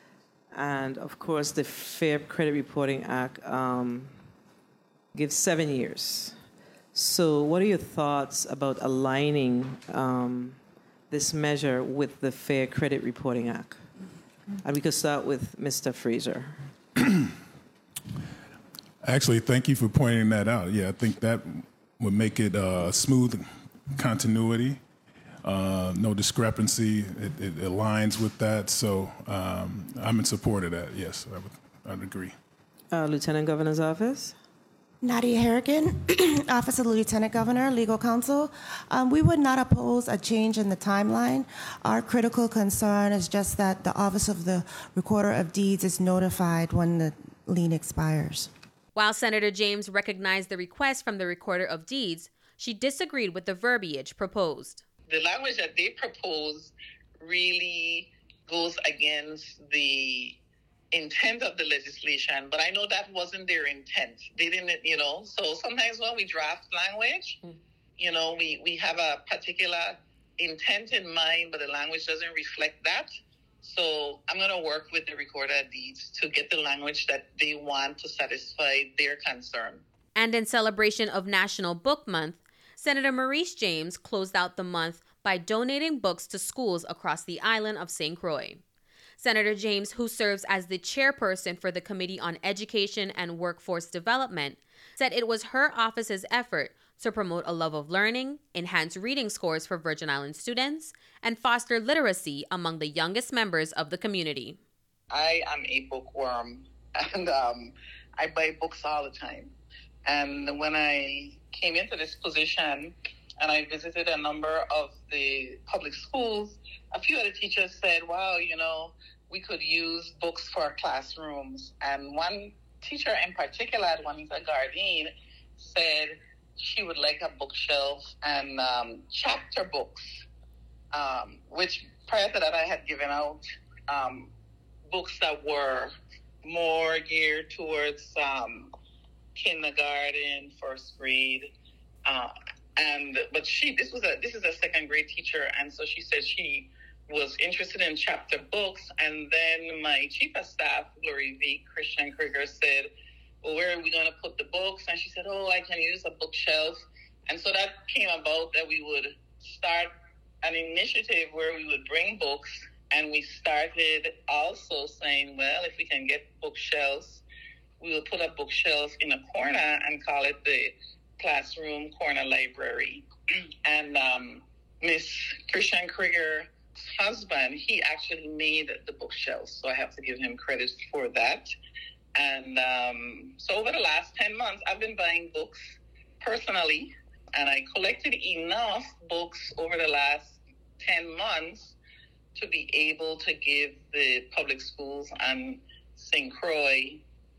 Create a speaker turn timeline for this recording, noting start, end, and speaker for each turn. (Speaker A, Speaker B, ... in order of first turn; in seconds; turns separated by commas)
Speaker A: 0.5-4.2, Speaker A: 5.1-6.4, Speaker A: 6.9-10.6, Speaker A: 11.1-13.8, Speaker A: 14.6-16.7, Speaker B: 19.0-24.8, Speaker B: 25.4-32.4, Speaker A: 32.9-34.4, Speaker C: 35.0-48.5, Speaker D: 49.0-54.9, Speaker E: 55.1-60.4, Speaker E: 60.9-67.4, Speaker E: 68.0-73.1, Speaker E: 73.6-79.8, Speaker D: 80.2-88.6, Speaker D: 89.2-104.6, Speaker E: 105.1-109.5, Speaker E: 110.1-130.2, Speaker E: 130.9-134.3, Speaker E: 134.9-138.7, Speaker E: 139.4-141.5, Speaker E: 142.1-152.9, Speaker E: 153.4-159.9, Speaker E: 160.4-167.2, Speaker E: 167.8-173.1, Speaker E: 173.7-181.5, Speaker E: 182.2-191.8, Speaker E: 192.3-197.0